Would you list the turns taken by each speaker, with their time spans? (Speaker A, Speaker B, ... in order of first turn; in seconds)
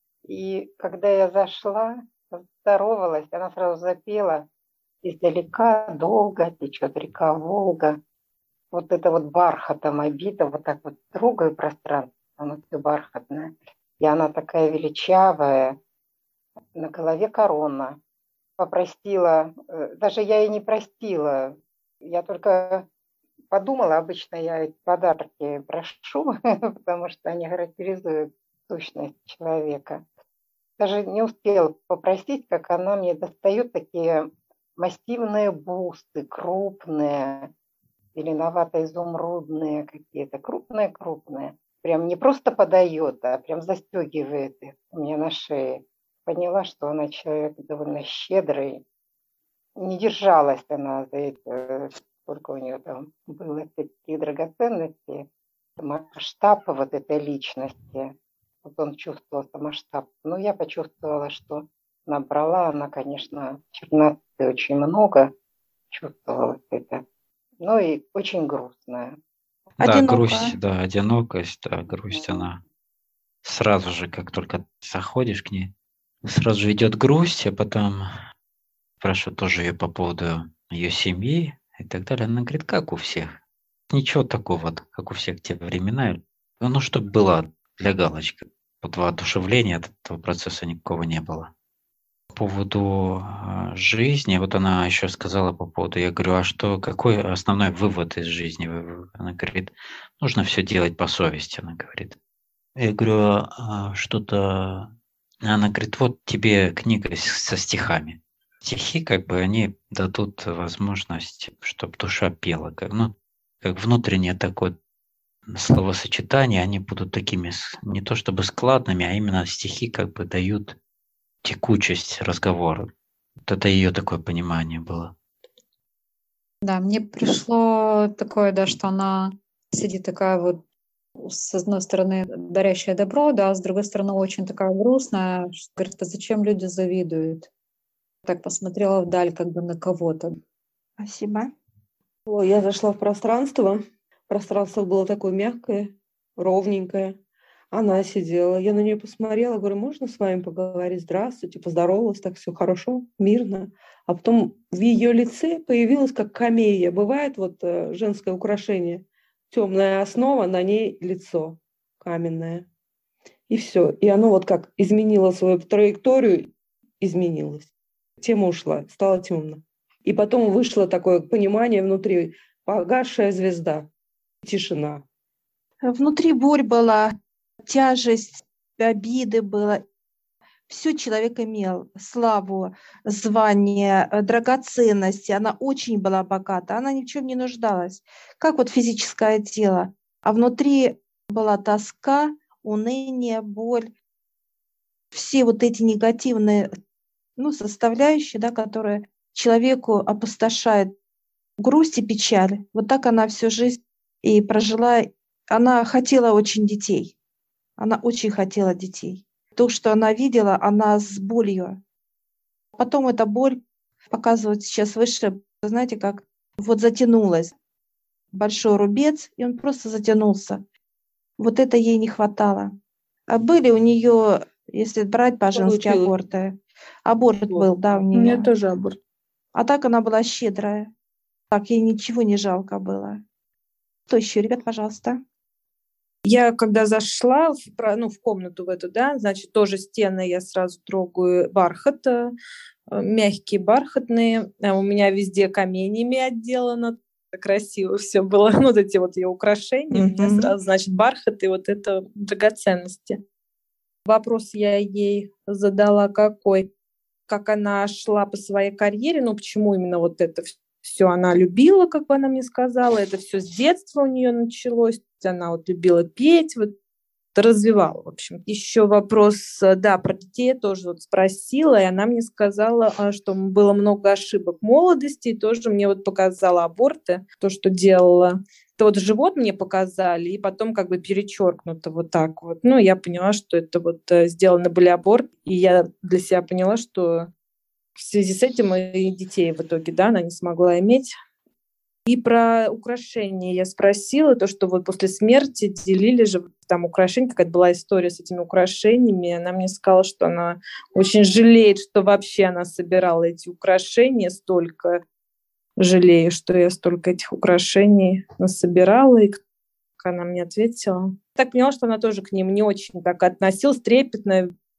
Speaker A: 0.3-4.4, 5.0-8.0, 8.7-15.8, 16.7-18.0, 18.6-22.9, 23.5-30.0, 30.8-37.5, 38.1-48.8, 49.8-55.3, 55.8-65.3, 65.9-67.0, 67.6-69.2, 72.0-72.5
Speaker B: 69.8-70.5, 141.0-141.5, 175.8-177.1, 177.7-179.8, 180.7-193.9, 195.1-196.7, 197.4-200.9, 201.6-207.2, 207.8-211.8, 212.8-213.6, 214.1-217.5, 218.3-220.6, 221.4-222.7, 223.3-228.5, 229.5-230.9, 231.5-233.2, 234.1-235.2, 249.9-250.5
Speaker C: 69.8-72.6, 73.4-75.7, 76.2-78.0, 79.0-83.4, 83.9-91.5, 92.3-102.2, 102.8-104.9, 105.4-113.1, 113.6-114.7, 115.5-120.8, 121.4-122.9, 123.4-125.1
Speaker D: 126.6-130.6, 131.2-137.5, 138.2-140.4
Speaker E: 142.3-143.8, 144.3-147.2, 147.7-162.6, 163.5-166.3, 167.0-167.7, 168.3-169.5, 170.1-173.8, 174.5-175.0, 225.5-226.1
Speaker F: 227.5-229.0, 236.3-242.3, 242.9-253.2, 254.1-256.7, 257.3-266.7, 267.4-287.3, 288.0-291.1, 292.1-304.9, 305.8-309.4, 310.0-314.5